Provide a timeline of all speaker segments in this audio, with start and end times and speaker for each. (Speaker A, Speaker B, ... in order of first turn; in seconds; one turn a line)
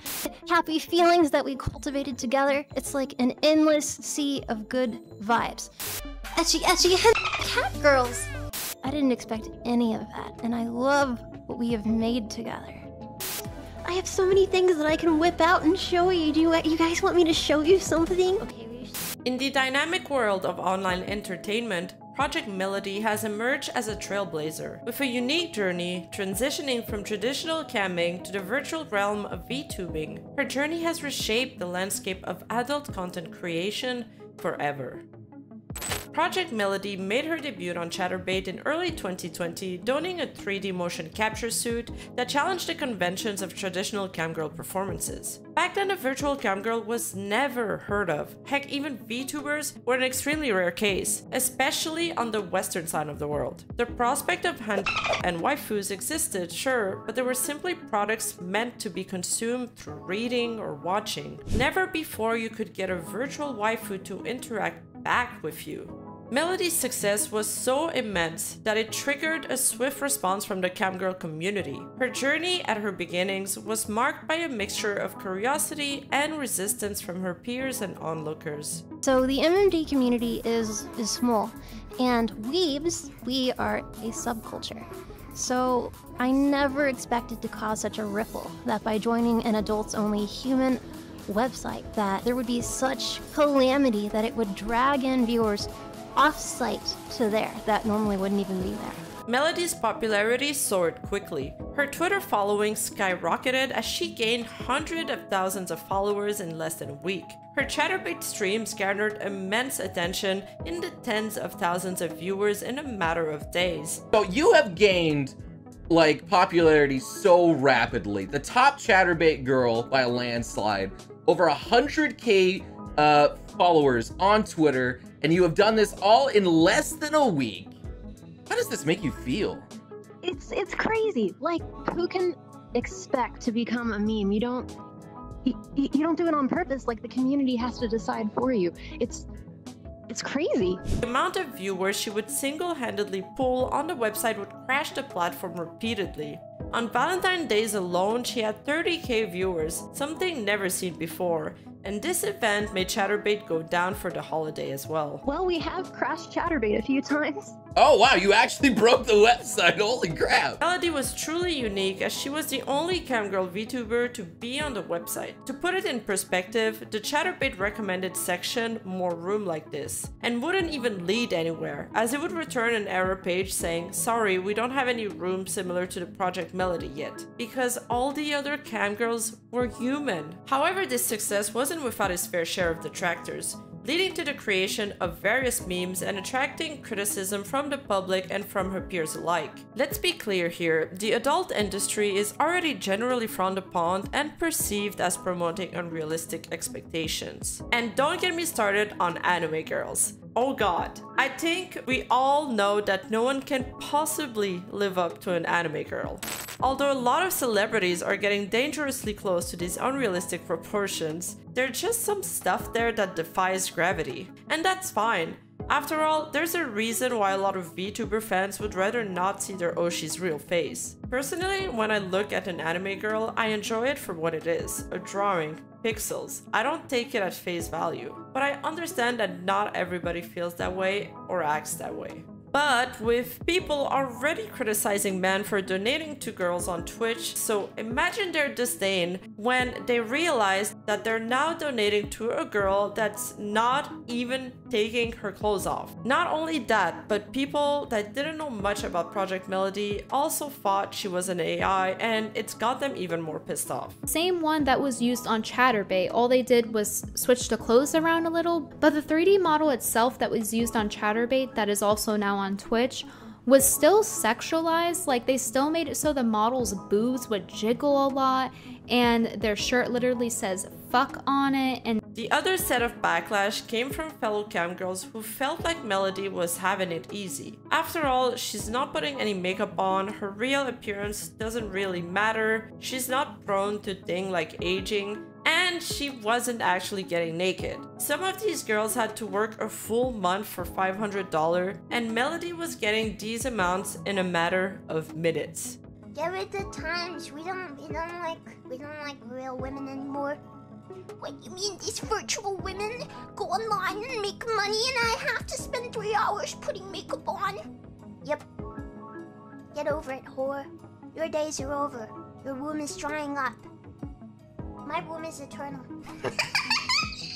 Speaker A: 0.2-5.7
Speaker A: 6.4-8.3
Speaker A: 8.8-12.8
Speaker A: 13.8-18.4
Speaker B: 18.5-18.8
Speaker C: 19.2-35.0
Speaker C: 36.1-78.8
Speaker A: 79.0-99.0
Speaker C: 99.2-114.0
Speaker D: 114.1-115.4
Speaker D: 115.9-127.8
Speaker D: 128.5-129.7
Speaker A: 130.2-134.7
Speaker A: 135.4-139.3
Speaker A: 140.1-140.8
Speaker C: 141.0-155.2
Speaker A: 155.2-157.6
Speaker D: 157.8-160.6
Speaker C: 160.6-254.0
Speaker E: 254.1-272.0
Speaker C: 272.1-295.8
Speaker B: 296.1-300.4
Speaker B: 301.2-307.6
Speaker B: 309.7-313.6
Speaker B: 314.9-315.9